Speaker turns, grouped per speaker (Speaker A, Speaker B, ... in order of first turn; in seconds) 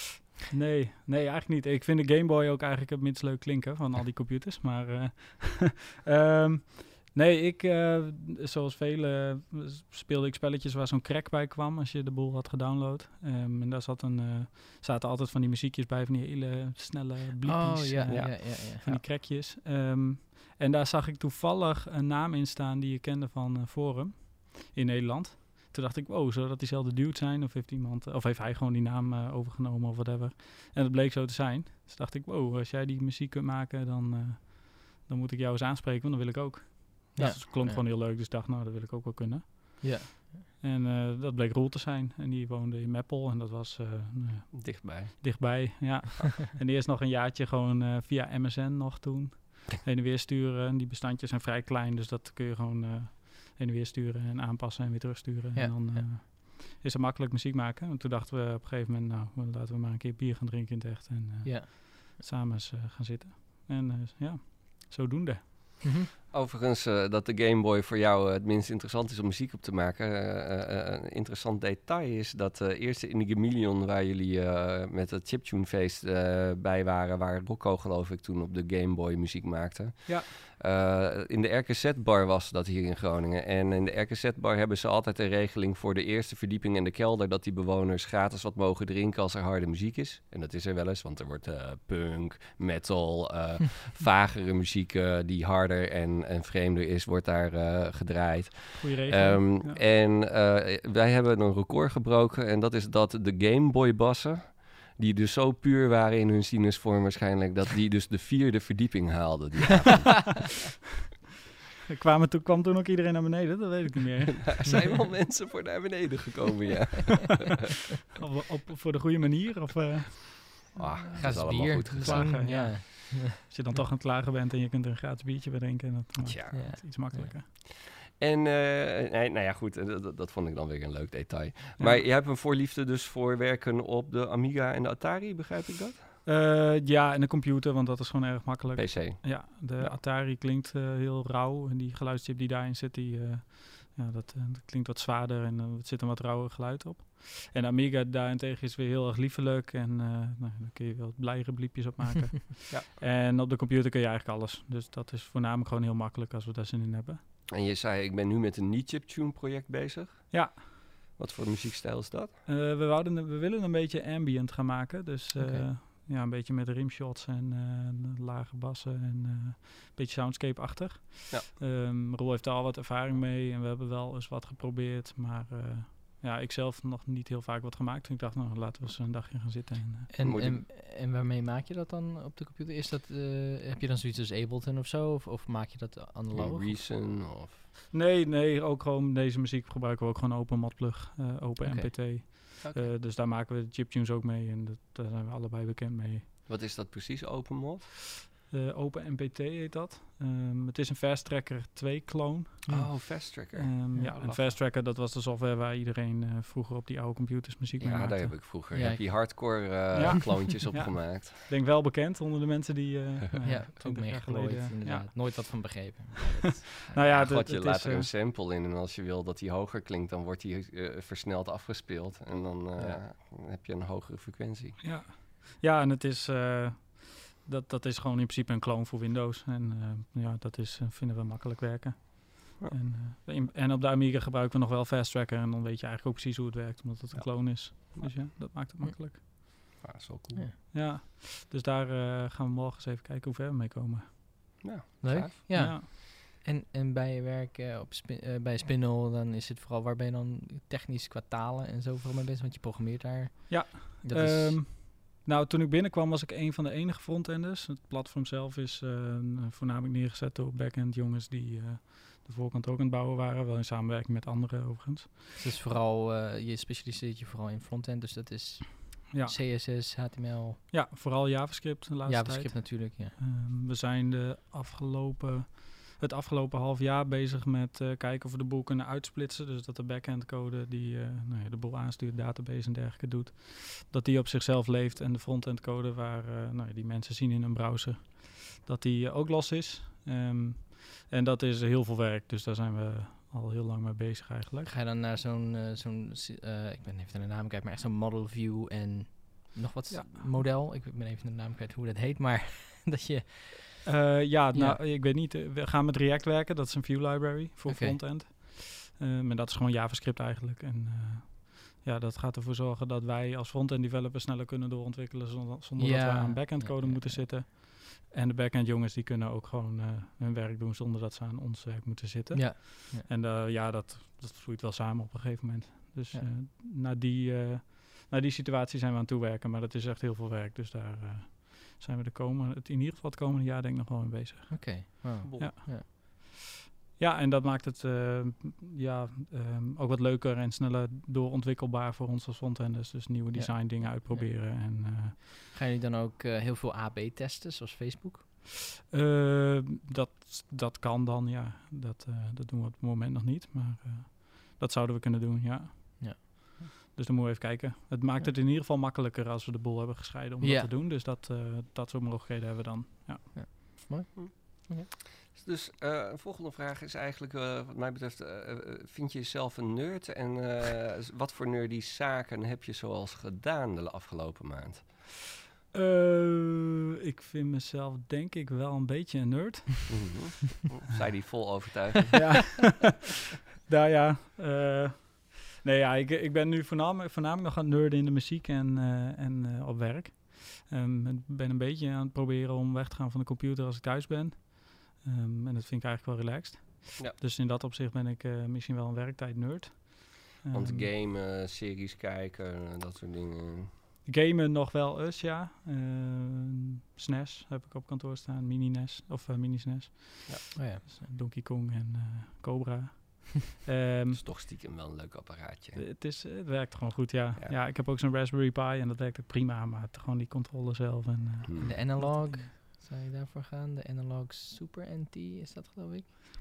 Speaker A: 0.4-65.4, 98.8-99.8, 111.9-114.7, 118.2-120.7, 121.5-127.5, 131.8-132.0, 136.2-157.2, 160.3-160.6, 162.4-180.1, 187.9-196.3, 198.5-202.9, 203.5-208.4, 209.9-215.9, 216.8-218.1, 224.8-239.2, 240.7-244.6, 245.5-245.9, 253.5-265.2, 269.1-269.4, 270.7-294.7, 299.9-300.4, 303.8-336.4, 337.0-345.2, 348.8-363.8, 375.7-380.2, 382.1-383.1, 383.6-400.9, 404.1-414.3, 415.8-422.5
Speaker B: 17.4-19.0, 37.2-37.8, 39.8-40.4, 55.5-56.2, 61.4-61.7, 65.8-66.1, 121.1-123.4, 126.5-127.3, 165.4-165.7, 180.1-186.8, 191.6-191.9, 203.9-204.2, 208.7-209.0, 213.4-217.1, 222.8-223.0, 245.0-254.6, 265.4-270.6, 272.0-273.1, 294.6-303.9, 304.5-304.8, 307.7-308.0, 315.8-317.3, 322.3-323.1, 334.5-335.9, 343.3-348.2, 356.0-356.7, 360.4-360.7, 363.3-364.9, 410.6-410.9, 421.6-426.1
Speaker C: 44.5-45.6, 66.3-110.5, 114.4-117.6, 120.7-122.6, 126.2-126.8, 127.7-136.1, 138.7-140.0, 157.5-160.4, 161.2-162.3, 180.2-180.6, 186.3-187.6, 192.6-192.9, 196.4-197.8, 202.7-204.5, 207.8-211.4, 217.1-224.8, 237.1-238.1, 239.8-240.4, 244.6-245.3, 335.2-335.5, 364.1-374.9, 379.9-382.5, 400.5-403.7, 414.1-415.8, 421.5-421.8